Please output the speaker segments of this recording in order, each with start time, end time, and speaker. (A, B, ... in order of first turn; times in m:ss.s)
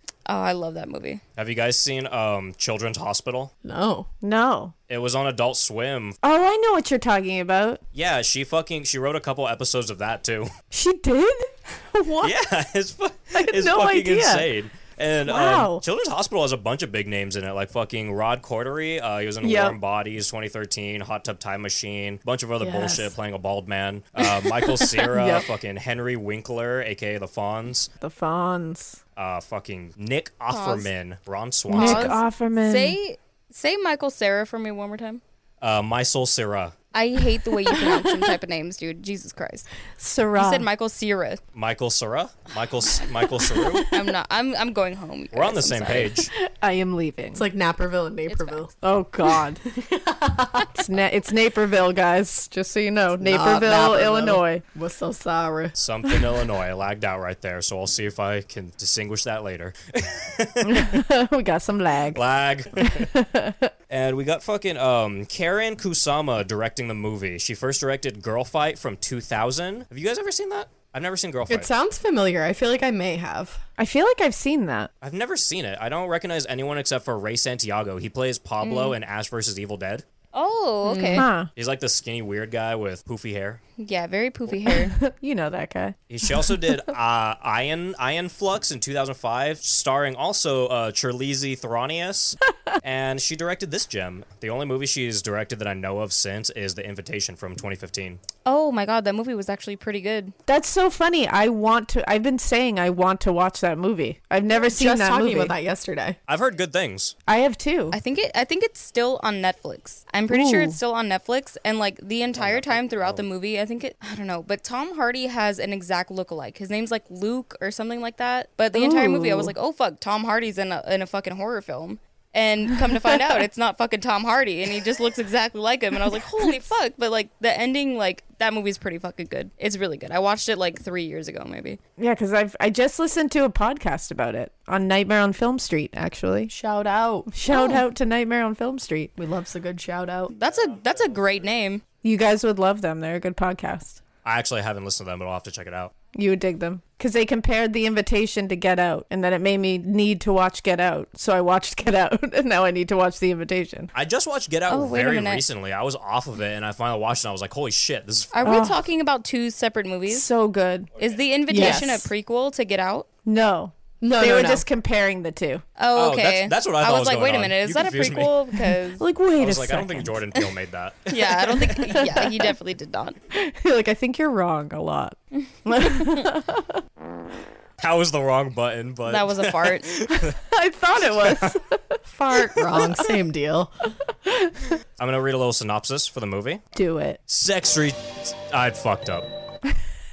0:00.3-0:01.2 A
0:01.4-0:03.5 B
0:03.6-0:04.1 C
0:04.2-0:04.7 D
0:04.9-0:06.2 B
0:06.2-0:07.8 D
0:07.9-0:10.5 B
0:10.7-0:12.3 D
0:12.2-0:27.9 B
0:13.3-0:14.5 D
0:15.3-0:15.8 D
0:19.4-0:19.8 D
0:22.6-0:23.1 D
0:25.0-0:25.5 D
0:28.0-0:29.0 D
0:29.2-0:32.2 B
0:30.5-0:30.9 A
0:31.7-0:35.2 A
0:31.7-0:33.0 D
0:35.6-0:36.8 B
0:36.9-0:39.7 A
0:40.0-0:40.7 D
0:40.4-0:41.4 A
0:41.5-0:43.9 B
0:43.9-0:46.2 A
0:45.3-0:46.3 B
0:46.3-0:47.4 D
0:47.3-0:48.7 C
0:48.3-0:48.7 A
0:48.8-0:49.6 D
0:49.7-0:50.7 C
0:50.7-0:54.6 D
0:53.2-0:55.7 C
0:55.7-1:01.0 B
1:00.7-1:02.2 D
1:02.1-1:03.1 B
1:02.8-1:03.7 D
1:03.9-1:11.7 B
1:11.5-1:13.6 C
1:13.8-1:14.9 D
1:15.0-1:20.0 B
1:18.6-1:19.0 A
1:20.3-1:21.3 A
1:20.8-1:21.3 C
1:21.1-1:21.5 D
1:21.6-1:23.6 B
1:23.8-1:25.0 A
1:24.7-1:26.8 D
1:26.1-1:38.2 B
1:38.4-1:40.3 A
1:40.5-1:45.5 D
1:44.5-1:46.2 C
1:46.3-1:47.2 B
1:47.3-1:48.0 D
1:47.9-2:11.8 A
1:50.3-1:50.7 C
1:52.3-1:53.3 B
1:58.7-1:59.5 D
2:12.0-2:16.5 D
2:16.5-2:17.3 C
2:17.3-2:19.1 D
2:17.5-2:17.8 A
2:19.2-2:20.3 C
2:20.3-2:21.8 A
2:22.0-2:24.0 D
2:24.2-2:25.9 B
2:26.1-2:33.9 D
2:33.9-2:38.4 B
2:34.7-2:35.4 A
2:38.3-2:40.3 A
2:38.4-2:38.8 D
2:40.1-2:40.9 D
2:41.0-2:43.1 A
2:41.5-2:42.1 C
2:41.5-2:42.0 D
2:43.3-2:45.6 D
2:44.0-2:44.6 C
2:45.8-2:49.1 A
2:46.0-2:48.4 B
2:49.0-2:50.3 D
2:49.4-2:52.0 B
2:51.1-2:53.2 A
2:53.3-2:56.8 D
2:57.8-3:00.4 B
2:59.1-2:59.9 A
3:00.2-3:01.8 D
3:01.0-3:01.6 B
3:02.1-3:03.7 C
3:02.3-3:03.0 D
3:04.3-3:04.5 D
3:05.0-3:06.6 B
3:06.8-3:07.2 D
3:07.3-3:09.3 B